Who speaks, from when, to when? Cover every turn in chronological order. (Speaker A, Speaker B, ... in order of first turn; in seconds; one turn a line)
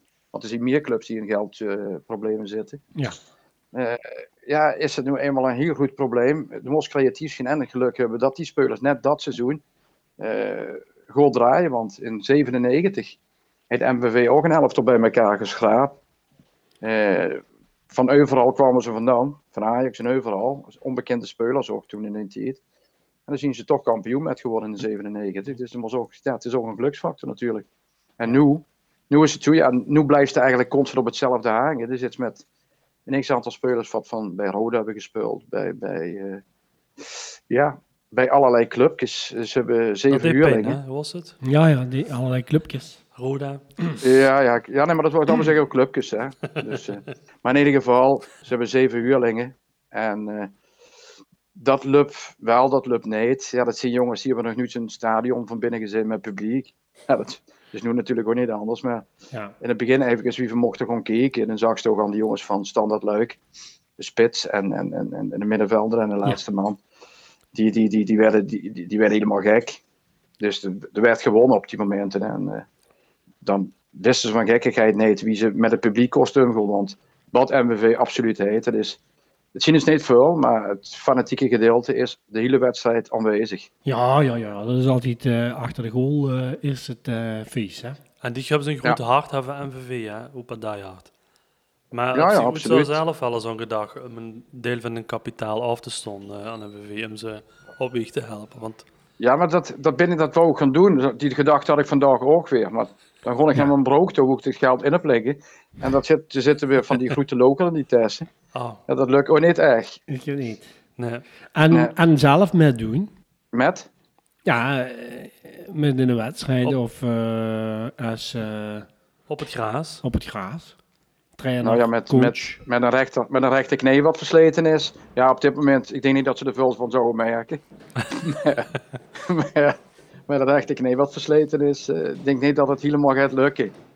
Speaker A: 0.3-2.8
Speaker A: 3.7-9.6
Speaker A: 10.2-13.2
Speaker A: 13.7-16.0
Speaker A: 16.8-22.6
Speaker A: 23.3-27.6
Speaker A: 28.2-32.4
Speaker A: 33.1-36.4
Speaker A: 37.0-40.8
Speaker B: 40.1-41.4
Speaker C: 41.4-43.0
Speaker B: 43.1-43.6
Speaker A: 44.0-50.5
Speaker A: 51.5-59.0
Speaker A: 59.6-63.4
Speaker A: 64.0-66.8
Speaker A: 67.5-69.8
Speaker A: 70.4-72.7
Speaker A: 73.4-79.0
Speaker A: 79.5-83.7
Speaker C: 83.8-88.0
Speaker B: 88.2-91.1
Speaker B: 91.9-98.8
Speaker A: 92.1-93.0
Speaker A: 99.2-108.3
Speaker B: 108.5-108.8
Speaker A: 108.9-110.0
Speaker C: 110.1-110.7
Speaker B: 111.0-111.2
Speaker C: 111.5-113.1
Speaker A: 113.5-113.9
Speaker C: 114.4-118.9
Speaker B: 119.3-120.0
Speaker C: 120.0-120.7
Speaker C: 121.3-122.6
Speaker A: 121.6-129.8
Speaker A: 130.3-133.7